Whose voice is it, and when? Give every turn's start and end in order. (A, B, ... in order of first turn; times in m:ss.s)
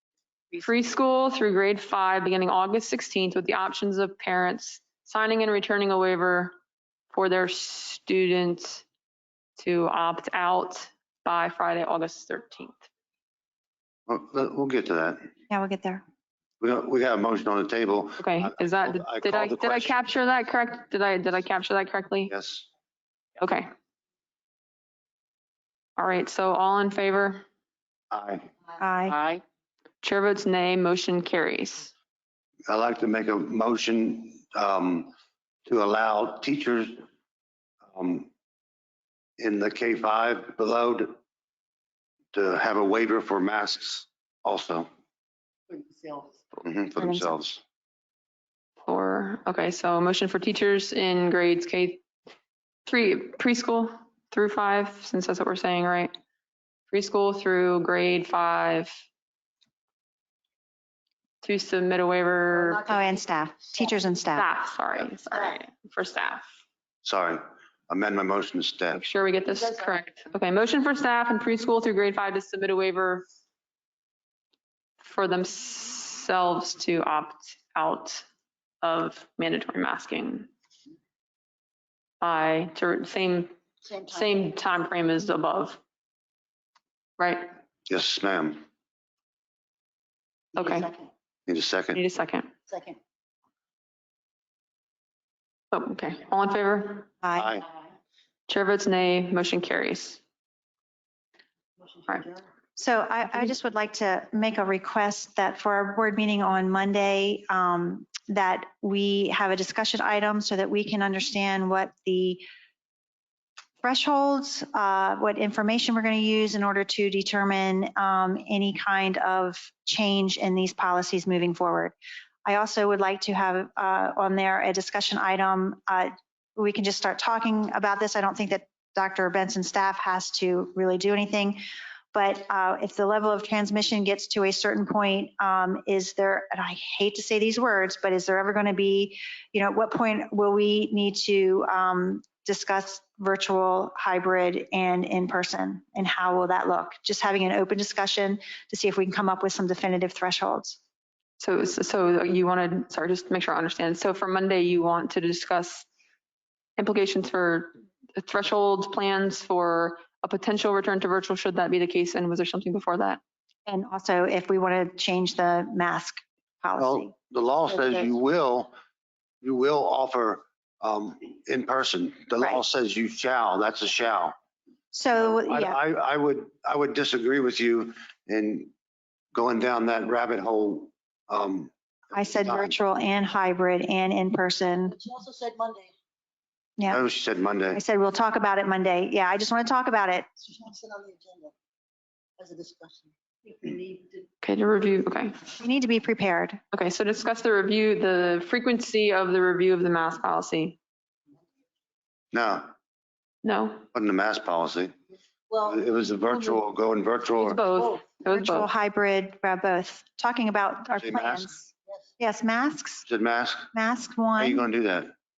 0:00.6-0:06.5 A
0:07.1-0:08.8 A
0:09.6-0:12.9 A
0:14.1-0:15.3 B
0:15.5-0:16.0 C
0:16.6-0:20.0 B
0:18.2-0:22.3 A
0:22.3-0:22.6 B
0:23.4-0:23.7 A
0:26.0-0:27.4 A
0:28.1-0:28.5 B
0:28.8-0:29.2 C
0:30.0-0:31.9 A
0:32.7-0:35.1 B
0:35.6-0:37.0 B
0:37.9-0:38.3 B
0:39.4-0:41.2 B
0:42.3-0:44.9 B
0:45.7-0:46.3 D
0:46.6-0:47.6 B
0:47.0-0:47.3 C
0:48.8-0:52.0 A
0:52.8-0:56.1 A
0:56.9-0:59.0 A
1:01.4-1:02.8 A
1:02.6-1:03.2 D
1:02.9-1:04.5 C
1:04.3-1:06.5 A
1:07.0-1:09.0 B
1:08.9-1:13.3 A
1:15.0-1:18.2 A
1:18.8-1:20.5 A
1:22.2-1:23.5 A
1:23.9-1:24.2 D
1:24.1-1:25.8 A
1:27.2-1:27.6 A
1:27.9-1:28.6 B
1:30.6-1:30.9 A
1:30.6-1:31.1 D
1:31.5-1:32.0 B
1:31.9-1:32.5 A
1:32.7-1:33.0 D
1:35.7-1:37.1 A
1:37.2-1:37.6 C
1:37.4-1:37.6 B
1:38.5-1:40.2 A
1:41.9-1:42.4 D
1:42.8-1:52.4 C
1:53.8-2:01.9 C
2:02.4-2:11.6 C
2:12.1-2:30.8 C
2:31.4-2:35.9 A
2:36.8-2:43.2 A
2:43.7-2:47.2 C
2:46.8-2:48.7 B
2:47.7-2:48.1 C
2:49.4-2:54.3 B
2:54.9-2:55.8 C
2:55.5-2:58.7 B
2:59.3-3:02.7 B
3:02.1-3:05.0 C
3:04.9-3:05.9 D
3:06.9-3:07.8 B
3:07.7-3:10.2 C
3:10.4-3:11.5 D
3:12.4-3:14.2 D
3:14.4-3:15.4 A
3:15.6-3:16.6 C
3:16.7-3:20.8 A
3:22.3-3:22.7 B
3:23.4-3:23.8 A
3:23.9-3:24.9 B
3:25.5-3:25.8 D
3:25.6-3:27.6 B
3:27.4-3:28.7 A
3:28.2-3:33.0 C
3:31.0-3:31.6 B
3:33.1-3:33.7 B
3:33.7-3:34.6 C
3:34.4-3:35.1 B